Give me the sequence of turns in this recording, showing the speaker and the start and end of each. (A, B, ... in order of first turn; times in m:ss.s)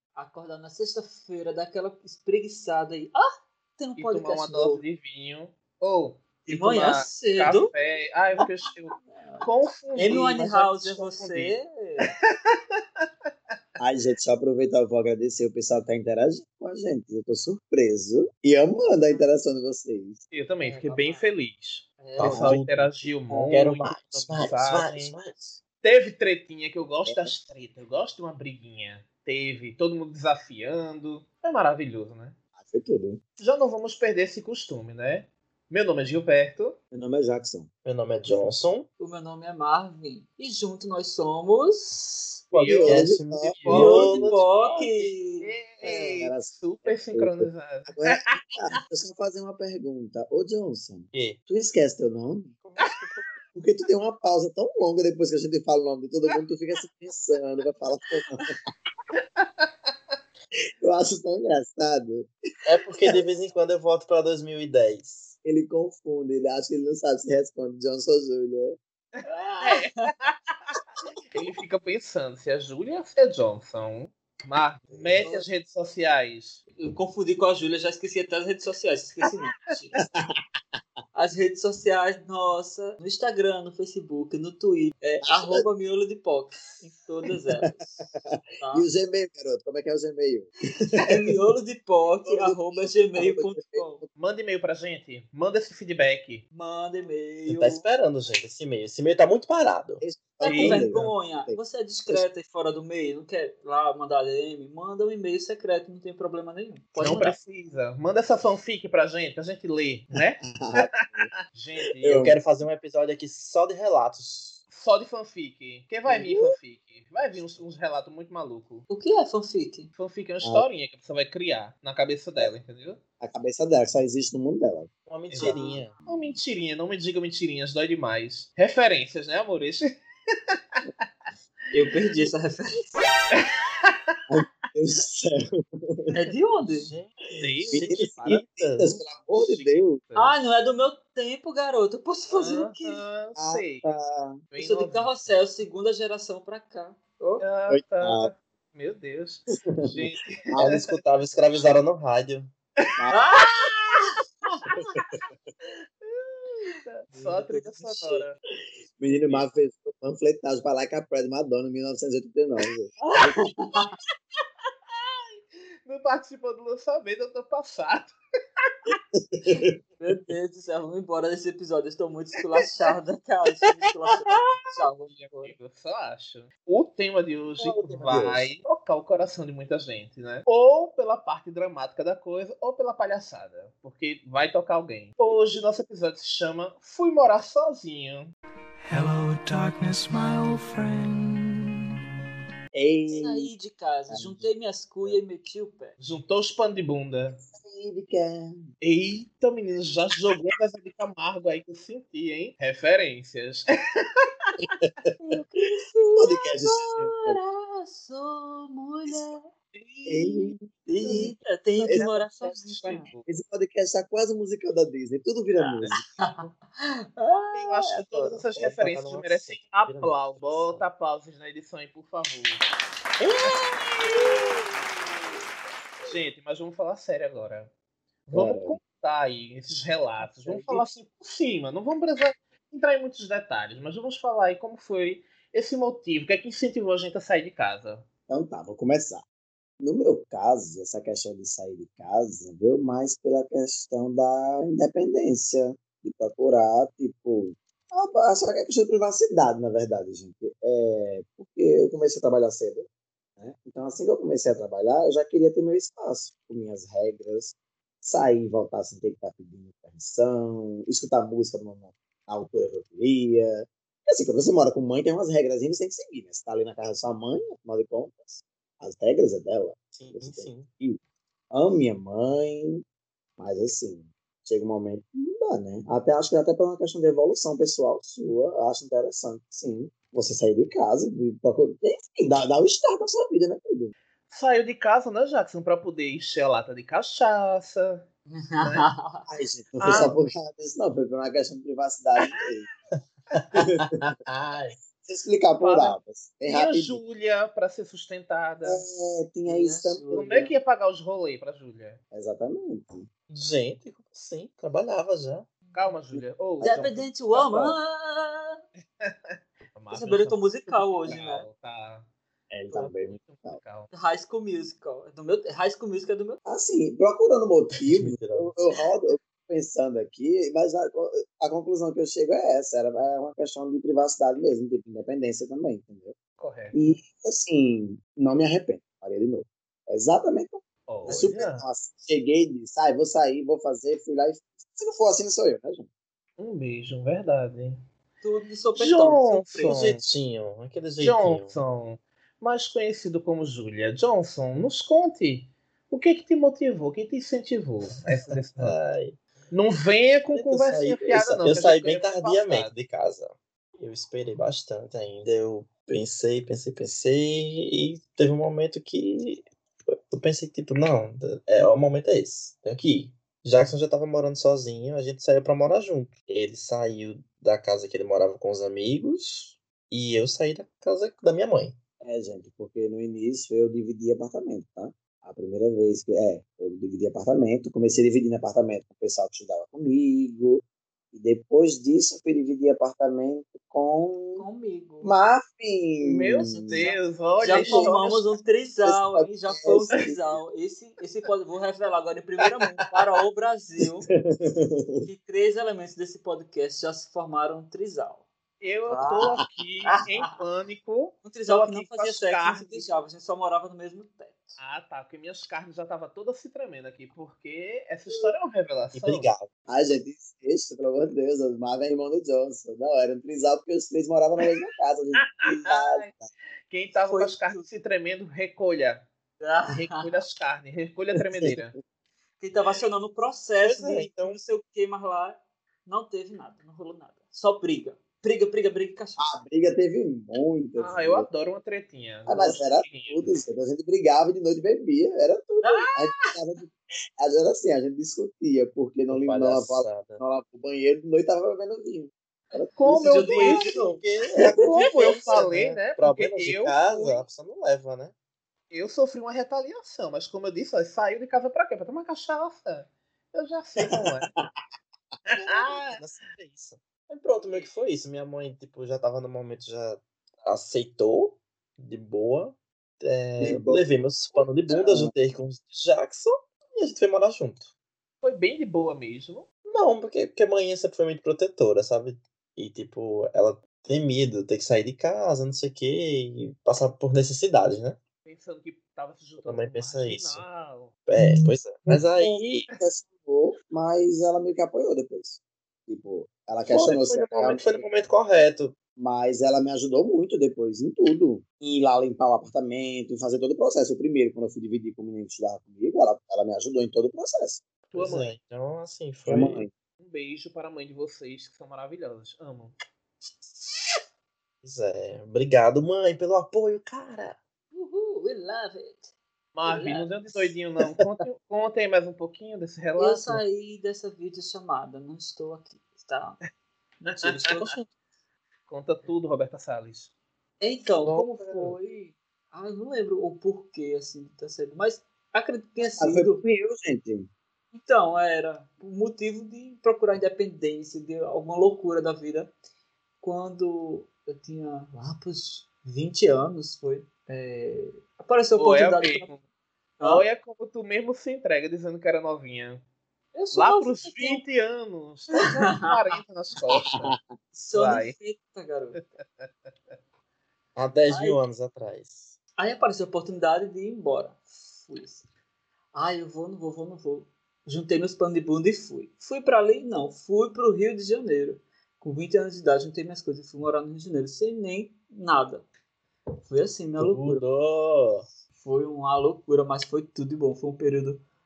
0:00.2-0:04.8 A
0:04.0-0:11.6 B
0:06.4-0:07.7 A
0:09.0-0:12.1 A
0:12.1-0:13.0 B
0:13.8-0:20.2 C
0:20.3-0:25.1 B
0:20.6-0:21.2 A
0:22.0-0:22.6 A
0:22.2-0:25.6 D
0:22.2-0:22.5 C
0:25.8-0:32.4 B
0:27.0-0:27.3 C
0:32.6-0:33.2 C
0:33.4-0:36.8 B
0:36.9-0:37.7 C
0:37.8-0:38.9 D
0:39.0-0:42.5 A
0:42.5-0:44.3 C
0:42.5-0:43.1 B
0:42.8-0:44.4 D
0:43.6-0:43.9 B
0:43.7-0:45.5 A
0:44.6-0:48.8 B
0:45.8-0:52.6 C
0:51.1-0:51.4 D
0:52.6-0:53.3 D
0:53.5-0:58.6 C
0:59.2-0:59.7 B
1:00.8-1:02.3 C
1:02.6-1:05.4 D
1:05.4-1:08.8 C
1:09.2-1:10.8 B
1:09.2-1:10.1 A
1:11.3-1:16.6 B
1:14.9-1:15.3 C
1:15.2-1:15.4 A
1:16.8-1:20.0 A
1:21.1-1:28.1 A
1:25.3-1:25.6 C
1:28.6-1:28.9 A
1:28.7-1:30.5 C
1:30.9-1:34.0 A
1:32.2-1:34.0 C
1:34.2-1:36.4 B
1:36.5-1:37.8 A
1:37.5-1:40.0 D
1:40.0-1:42.2 C
1:40.4-1:47.4 A
1:40.4-1:41.0 B
1:47.0-1:50.8 B
1:50.4-1:51.3 C
1:51.5-1:52.3 B
1:52.0-1:52.4 C
1:52.1-1:54.6 D
1:54.7-1:58.8 B
1:58.9-1:59.9 A
2:00.0-2:03.0 B
2:03.2-2:04.9 C
2:05.1-2:05.9 D
2:05.3-2:11.0 B
2:11.7-2:12.9 A
2:13.4-2:14.2 B
2:14.3-2:16.1 C
2:16.1-2:16.9 A
2:16.6-2:19.0 D
2:17.4-2:18.4 B
2:17.7-2:20.0 C
2:19.3-2:20.4 B
2:20.2-2:23.0 A
2:22.3-2:23.9 B
2:23.4-2:24.4 C
2:24.5-2:25.1 B
2:24.6-2:27.4 A
2:27.4-2:30.8 B
2:27.7-2:28.3 C
2:29.7-2:30.7 C
2:30.6-2:32.5 D
2:32.8-2:33.9 B
2:33.1-2:34.1 A
2:34.4-2:35.0 B
2:34.8-2:35.2 C
2:35.7-2:38.4 B
2:37.1-2:38.3 A
2:39.0-2:43.4 C
2:43.1-2:43.9 A
2:44.9-2:49.0 B
2:49.1-2:49.6 C
2:50.0-2:55.5 A
2:54.2-2:54.6 B
2:55.1-3:08.3 B
2:57.6-2:58.5 C
3:08.9-3:11.7 E
3:12.7-3:13.5 C
3:13.1-3:16.0 A
3:14.1-3:14.5 C
3:16.0-3:17.4 B
3:17.4-3:18.6 C
3:18.8-3:24.5 B
3:24.6-3:24.9 C
3:25.2-3:29.5 A
3:26.2-3:27.4 C
3:29.7-3:31.3 B
3:30.0-3:32.2 C
3:30.9-3:33.1 A
3:31.8-3:33.3 B
3:33.2-3:36.0 C
3:35.6-3:38.4 A
3:35.9-3:36.5 B
3:37.5-3:42.6 B
3:38.5-3:40.8 D
3:43.4-3:44.3 B
3:46.0-3:47.7 B
3:48.3-3:58.0 B
3:48.3-3:48.8 C
3:50.2-3:50.8 C
3:58.3-3:59.2 C
3:59.8-4:12.9 C
4:13.4-4:31.0 C
4:29.9-4:30.7 D
4:31.5-4:32.8 C
4:33.4-4:43.9 C
4:44.3-4:48.0 B
4:48.3-4:49.3 A
4:48.6-4:48.9 B
4:49.3-4:52.7 C
4:49.8-4:50.1 B
4:53.4-4:54.8 D
4:53.5-4:54.2 C
4:55.0-4:57.0 C
4:55.6-4:56.0 B
4:56.5-4:58.8 B
4:58.6-5:00.0 C
4:59.4-5:00.5 A
5:00.1-5:02.0 B
5:02.1-5:03.1 C
5:03.3-5:05.5 D
5:05.7-5:06.0 A
5:05.7-5:07.7 B
5:06.6-5:08.6 A
5:09.0-5:12.1 B
5:09.9-5:11.4 A
5:12.5-5:13.6 C
5:12.7-5:13.9 B
5:13.9-5:16.4 A
5:16.4-5:26.2 C
5:17.8-5:18.6 D
5:26.4-5:26.8 B
5:26.7-5:35.9 C
5:30.9-5:31.6 B
5:36.4-5:37.8 B
5:38.2-5:39.8 A
5:38.8-5:40.0 B
5:39.6-5:41.6 D
5:41.0-5:48.7 B
5:48.2-5:49.2 D
5:49.5-5:52.7 B
5:50.3-6:11.8 D
6:12.0-6:24.4 C
6:24.4-6:25.1 A
6:25.0-6:26.9 C
6:26.0-6:28.4 B
6:26.4-6:34.1 A
6:27.4-6:27.9 C
6:28.8-6:30.3 C
6:34.3-6:35.1 C
6:35.0-6:38.2 A
6:38.6-6:42.9 B
6:38.9-6:40.2 A
6:41.2-6:44.6 A
6:44.6-6:49.3 B
6:48.9-6:49.5 D
6:49.7-6:56.3 C
6:55.2-6:56.1 B
6:56.7-6:59.1 B
6:57.1-6:57.6 A
6:59.4-7:00.2 A
6:59.7-7:01.8 B
7:02.4-7:09.3 A
7:03.6-7:04.4 D
7:09.2-7:11.3 C
7:10.8-7:13.3 B
7:12.3-7:23.3 C
7:15.6-7:16.3 A
7:19.1-7:20.2 D
7:22.8-7:23.7 B
7:22.9-7:24.1 A
7:23.4-7:28.1 D
7:24.3-7:25.4 C
7:24.4-7:27.2 B
7:28.7-7:34.3 B
7:33.8-7:34.2 C
7:35.3-7:36.0 B
7:35.4-7:47.7 D
7:43.4-7:43.8 C
7:44.7-7:45.1 C
7:48.2-7:49.4 B
7:49.6-7:58.0 D
7:58.2-8:00.9 B
7:59.4-8:00.4 D
8:01.0-8:02.7 D
8:01.9-8:07.8 C
8:06.6-8:08.7 D
8:09.0-8:17.6 C
8:17.9-8:19.6 D
8:17.9-8:18.3 B
8:19.3-8:19.7 C
8:20.0-8:22.7 B
8:24.6-8:27.4 D
8:27.7-8:29.1 A
8:29.5-8:33.4 B
8:29.6-8:30.5 A
8:33.0-8:36.4 A
8:37.0-8:37.8 A
8:37.4-8:37.8 D
8:38.7-8:40.1 B
8:40.6-8:46.4 A
8:41.0-8:41.7 D
8:46.0-8:47.3 C
8:47.7-8:52.5 A
8:53.2-8:59.3 A
8:58.6-8:59.4 B
9:00.0-9:00.2 A
9:00.0-9:02.8 B
9:03.3-9:04.4 A
9:03.5-9:07.1 B
9:06.8-9:07.2 C
9:07.5-9:09.0 A
9:07.7-9:08.1 B
9:09.0-9:09.5 B
9:10.8-9:12.3 D
9:11.1-9:11.4 A
9:12.6-9:15.2 A
9:15.9-9:25.6 A
9:26.5-9:27.4 A
9:27.0-9:28.2 D
9:28.6-9:31.2 A